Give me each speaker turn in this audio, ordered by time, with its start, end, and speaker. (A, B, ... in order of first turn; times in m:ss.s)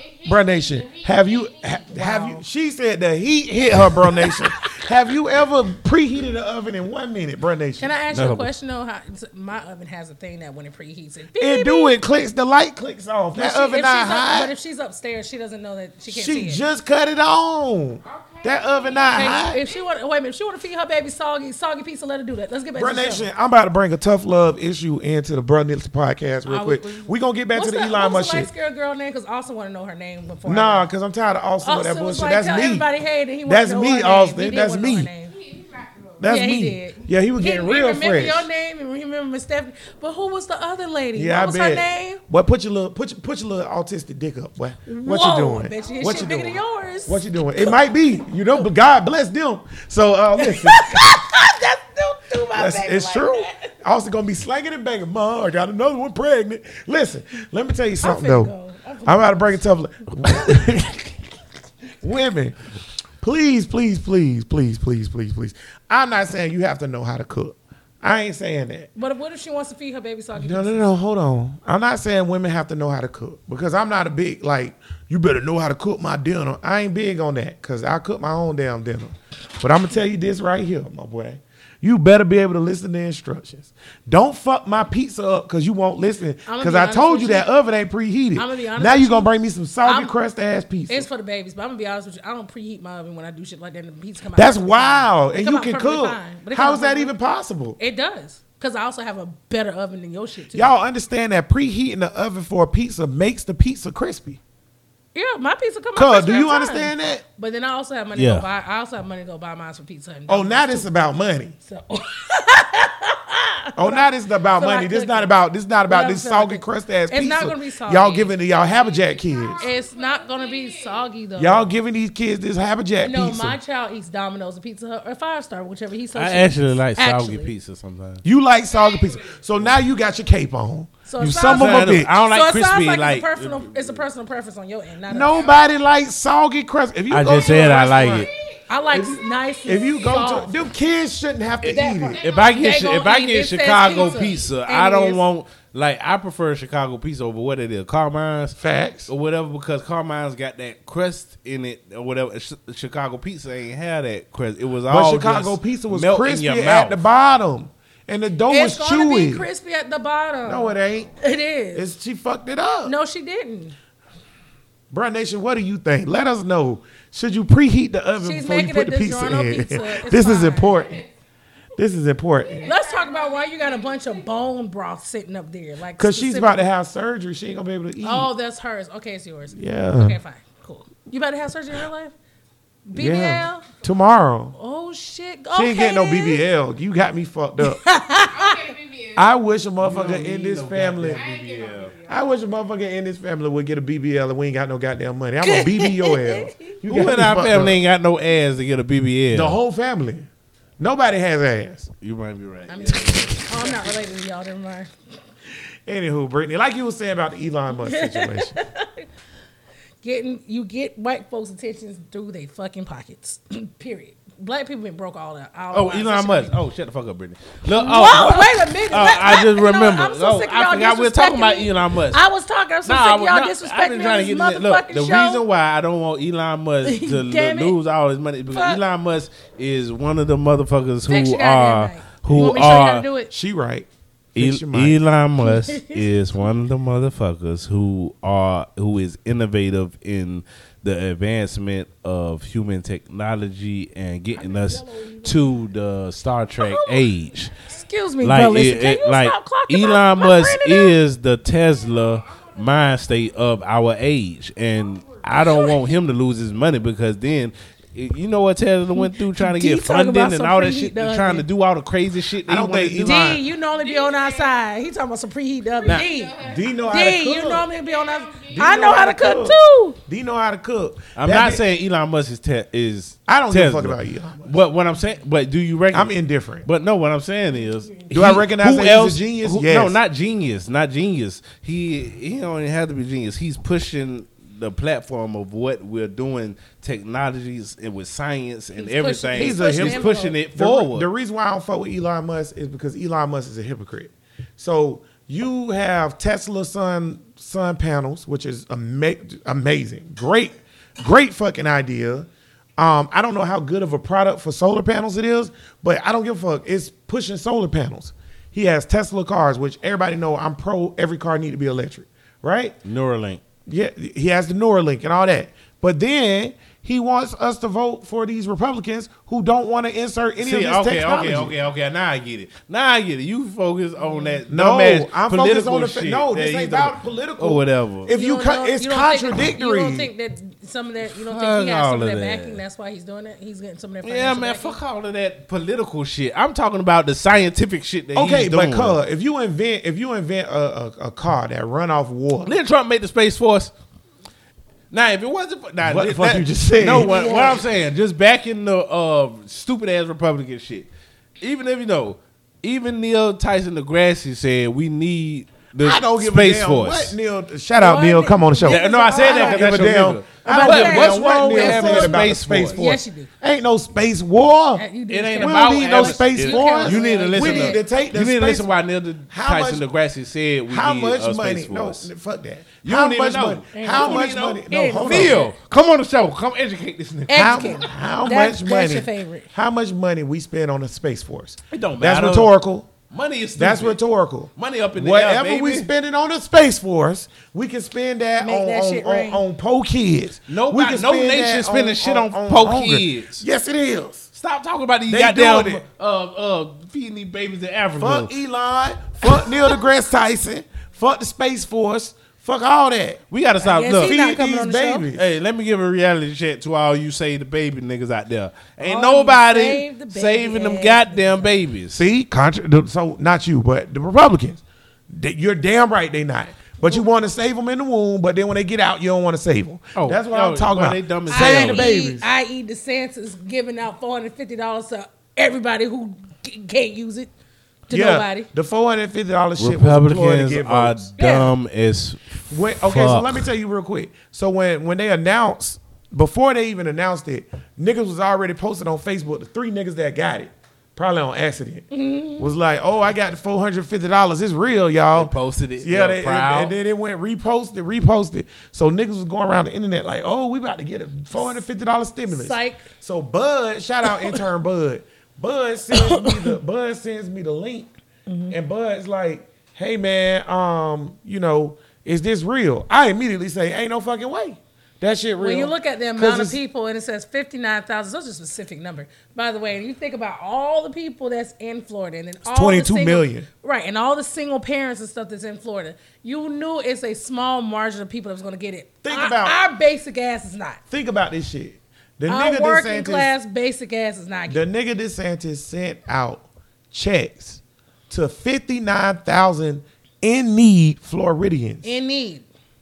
0:00.2-0:07.9 A
0:01.9-0:02.4 B
0:04.2-0:04.9 B
0:07.8-0:12.0 B
0:08.1-0:08.5 C
0:11.4-0:14.5 A
0:13.4-0:16.6 B
0:16.1-0:19.6 A
0:19.1-0:23.3 B
0:22.8-0:28.5 A
0:26.5-0:30.9 B
0:30.4-0:32.9 A
0:31.6-0:35.4 B
0:33.4-0:35.1 A
0:36.2-0:38.5 A
0:36.2-0:42.2 B
0:41.2-0:51.2 A
0:44.9-0:47.8 B
0:50.4-0:53.7 B
0:52.6-0:58.5 A
0:58.0-0:59.4 B
0:59.0-1:01.1 A
1:02.0-1:02.6 A
1:03.2-1:08.9 A
1:09.0-1:10.9 B
1:10.4-1:31.1 A
1:26.5-1:27.5 B
1:28.4-1:29.3 B
1:29.8-1:30.1 B
1:30.9-1:37.1 B
1:34.4-1:37.8 A
1:37.8-1:40.7 B
1:40.5-1:44.4 A
1:45.2-1:50.9 B
1:46.0-1:47.2 A
1:48.2-1:48.4 C
1:50.3-1:51.6 A
1:51.6-1:55.3 B
1:53.8-1:59.7 A
1:55.9-1:58.3 B
1:59.5-2:01.7 B
2:01.4-2:03.6 A
2:03.0-2:07.5 B
2:06.1-2:08.2 C
2:08.2-2:12.2 A
2:11.1-2:15.6 B
2:11.2-2:14.0 C
2:15.1-2:18.3 A
2:17.1-2:18.3 C
2:18.7-2:20.6 B
2:18.9-2:22.2 A
2:21.6-2:25.2 B
2:21.6-2:37.0 C
2:28.6-2:29.1 A
2:34.9-2:39.5 A
2:38.5-2:41.8 B
2:40.4-2:41.1 A
2:41.8-2:42.9 A
2:42.8-2:43.8 B
2:44.9-2:51.0 A
2:48.2-2:50.9 B
2:51.8-2:52.7 A
2:52.6-2:56.6 B
2:56.0-2:58.3 A
2:58.0-3:02.1 B
2:59.5-3:00.2 A
3:02.9-3:03.6 B
3:03.0-3:04.6 A
3:04.6-3:06.4 B
3:05.5-3:07.8 A
3:07.6-3:08.8 B
3:09.1-3:11.3 A
3:09.8-3:12.0 C
3:12.0-3:17.8 A
3:15.4-3:16.6 B
3:16.9-3:19.6 C
3:19.3-3:20.3 A
3:20.8-3:21.9 A
3:22.0-3:24.0 C
3:22.7-3:24.9 B
3:25.9-3:28.5 A
3:27.7-3:29.1 B
3:30.0-3:36.6 B
3:35.7-3:42.2 C
3:37.7-3:45.4 B
3:42.8-3:53.1 C
3:46.8-3:47.8 B
3:48.5-3:48.8 B
3:51.1-3:53.3 B
3:53.3-3:55.0 A
3:54.4-4:07.6 C
3:55.4-3:56.0 B
4:04.4-4:05.4 B
4:06.6-4:07.1 B
4:07.6-4:10.9 B
4:08.2-4:23.2 C
4:15.5-4:15.7 B
4:19.0-4:21.4 B
4:22.5-4:23.4 A
4:23.0-4:30.0 B
4:26.4-4:27.7 A
4:28.5-4:31.6 A
4:31.2-4:36.1 C
4:33.3-4:34.5 A
4:35.9-4:36.7 A
4:36.6-4:51.1 C
4:38.1-4:40.0 A
4:48.8-4:50.4 B
4:49.4-5:12.8 A
5:12.8-5:13.4 C
5:13.7-5:21.6 A
5:20.4-5:28.1 C
5:24.0-5:24.4 B
5:24.5-5:30.1 A
5:28.1-5:34.8 B
5:31.3-5:32.6 C
5:34.0-5:39.0 C
5:38.1-5:42.6 A
5:42.4-5:43.7 C
5:44.9-5:50.9 C
5:45.8-5:47.6 A
5:47.0-5:47.6 B
5:51.4-5:57.1 C
5:55.8-6:04.9 A
5:57.8-5:59.9 B
5:58.6-6:02.8 C
6:00.5-6:03.3 B
6:04.8-6:07.8 B
6:05.1-6:12.1 C
6:05.4-6:08.7 A
6:09.3-6:09.8 A
6:10.7-6:15.4 A
6:12.8-6:17.9 C
6:13.7-6:15.6 B
6:17.3-6:19.5 B
6:17.3-6:22.9 A
6:21.7-6:22.5 C
6:23.1-6:24.0 C
6:23.6-6:34.3 A
6:24.6-6:25.9 C
6:28.4-6:29.4 B
6:30.5-6:33.4 C
6:34.4-6:38.3 C
6:35.1-6:35.8 A
6:38.0-6:43.2 A
6:43.3-6:44.2 C
6:43.6-6:45.1 B
6:44.0-6:45.2 A
6:45.1-6:52.0 C
6:48.8-6:51.5 B
6:51.9-7:02.3 A
7:00.0-7:01.9 C
7:01.3-7:07.3 B
7:07.9-7:08.5 B
7:07.9-7:11.2 A
7:09.6-7:13.5 C
7:11.2-7:11.5 B
7:12.5-7:21.9 A
7:21.9-7:22.5 B
7:22.4-7:37.9 A
7:25.2-7:26.7 C
7:32.3-7:32.8 B
7:34.1-7:34.4 B
7:35.9-7:36.5 B
7:38.3-7:38.6 B
7:38.5-7:46.6 A
7:45.4-8:00.8 B
7:52.4-7:53.5 A
7:59.0-7:59.6 A
8:00.9-8:03.3 A
8:02.3-8:04.6 B
8:04.5-8:12.0 A
8:11.8-8:12.5 B